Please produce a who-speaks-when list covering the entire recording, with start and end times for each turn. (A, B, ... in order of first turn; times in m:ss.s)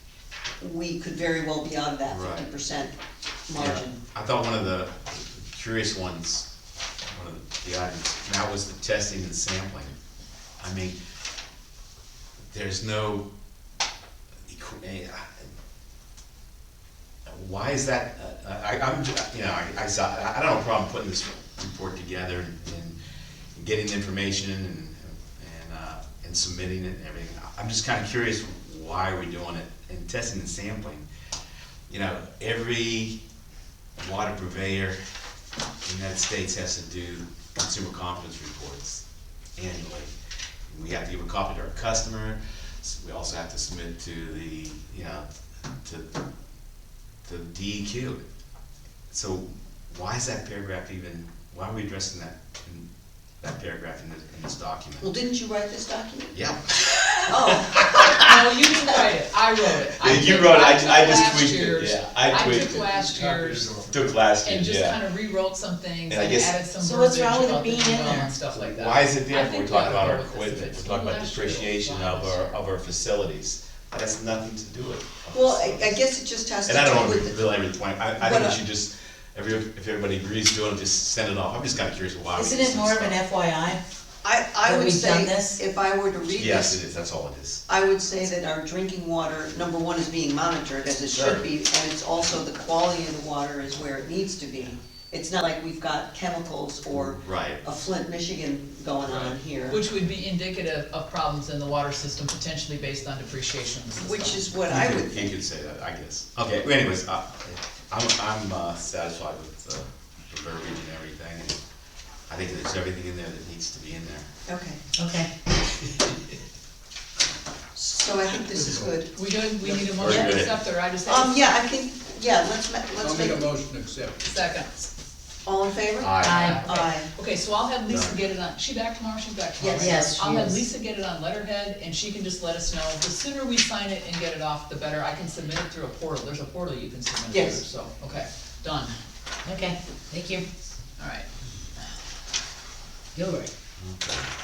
0:00.6-0:02.9 A
0:02.0-0:02.5 B
0:03.5-0:04.0 A
0:03.6-0:06.5 B
0:07.1-0:09.9 B
0:10.6-0:11.0 B
0:12.5-0:13.2 B
0:14.5-0:15.4 B
0:17.3-0:23.0 B
0:23.6-0:31.0 B
0:31.9-0:33.2 B
0:34.0-0:35.0 B
0:35.8-0:39.0 B
0:39.6-0:40.1 B
0:40.7-0:45.3 B
0:47.2-0:48.2 B
0:49.1-0:52.9 B
0:53.4-0:55.1 B
0:55.0-0:56.4 A
0:56.3-0:58.4 B
0:57.2-0:58.0 A
0:58.2-1:03.8 C
0:59.9-1:02.9 B
1:02.9-1:04.1 D
1:03.9-1:05.0 B
1:04.4-1:12.6 C
1:06.1-1:06.6 B
1:06.8-1:08.3 E
1:08.5-1:16.0 B
1:15.3-1:17.5 A
1:16.6-1:23.2 B
1:18.2-1:18.6 A
1:22.4-1:23.8 E
1:24.2-1:26.8 A
1:24.6-1:25.6 E
1:26.3-1:27.6 B
1:27.7-1:39.8 A
1:31.0-1:31.4 B
1:36.9-1:37.6 B
1:39.0-1:39.4 B
1:39.7-1:44.4 C
1:44.0-1:45.3 A
1:44.7-1:51.6 B
1:52.3-1:54.3 B
1:54.5-1:54.8 A
1:55.0-1:55.3 E
1:57.8-1:59.1 A
1:58.5-1:59.0 D
1:59.1-2:01.4 C
1:59.6-2:00.2 D
2:00.0-2:00.5 B
2:00.0-2:00.3 E
2:01.0-2:03.6 A
2:03.0-2:04.2 D
2:04.2-2:04.7 C
2:05.4-2:07.1 A
2:06.0-2:06.6 B
2:06.2-2:06.8 E
2:06.2-2:18.9 C
2:07.9-2:08.1 B
2:09.6-2:10.2 A
2:09.8-2:10.6 E
2:17.3-2:17.6 A
2:19.4-2:20.4 E
2:21.0-2:21.3 C
2:23.2-2:23.5 E
2:23.8-2:24.3 B